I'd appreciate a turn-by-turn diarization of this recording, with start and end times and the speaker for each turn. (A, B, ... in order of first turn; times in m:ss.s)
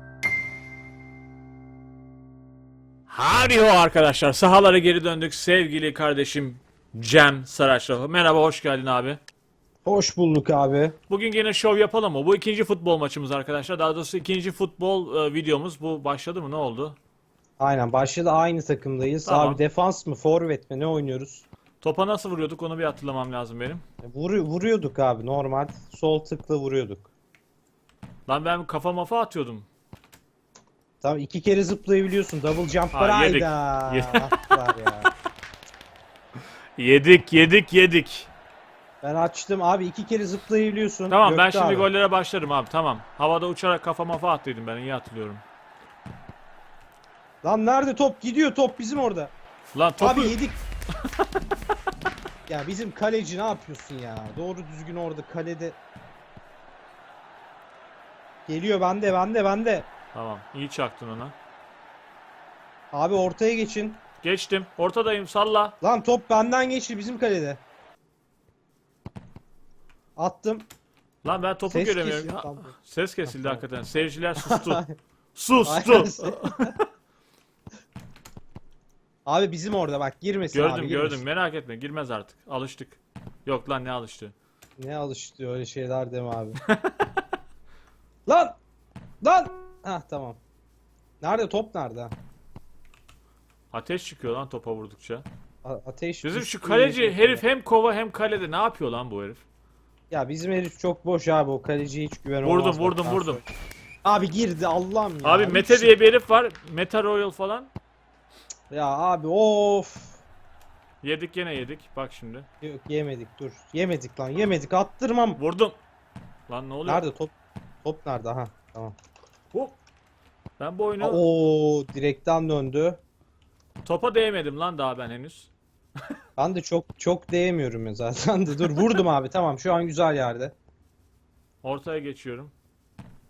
0:03.1-0:09.2 A
0:09.8-0:11.0 B
0:11.1-0:17.0 A
0:17.6-0:21.4 B
0:19.2-0:19.6 A
0:21.8-0:23.8 A
0:24.0-0:27.1 B
0:28.3-0:29.7 A
0:31.0-0:35.1 B
0:32.9-0:34.3 A
0:36.8-0:38.3 A
0:39.0-0:41.9 B
0:41.1-0:45.4 A
0:47.4-0:49.3 B
0:49.7-0:50.4 A
0:50.0-0:50.6 B
0:52.5-0:55.8 B
0:58.5-0:59.9 B
1:00.1-1:01.3 A
1:02.9-1:04.0 B
1:04.2-1:05.8 A
1:05.8-1:07.6 B
1:10.2-1:10.7 B
1:11.2-1:14.8 A
1:11.7-1:12.7 B
1:13.2-1:13.6 B
1:14.4-1:14.9 B
1:15.3-1:16.8 A
1:15.6-1:16.7 B
1:19.2-1:21.2 B
1:20.5-1:24.3 A
1:24.8-1:26.6 B
1:26.7-1:27.0 A
1:28.3-1:28.6 B
1:29.2-1:30.4 B
1:31.2-1:32.2 B
1:33.7-1:35.2 A
1:35.6-1:37.4 B
1:36.2-1:39.4 A
1:40.1-1:43.4 B
1:42.4-1:43.4 A
1:44.0-1:45.9 B
1:45.2-1:47.7 A
1:48.7-1:50.2 B
1:51.0-1:52.5 A
1:52.6-1:55.4 B
1:55.4-1:55.8 A
1:56.5-1:57.0 A
1:56.8-1:58.9 B
1:59.5-1:59.8 A
2:00.6-2:01.2 A
2:01.0-2:03.0 B
2:03.8-2:05.5 A
2:06.4-2:10.6 B
2:11.6-2:12.5 A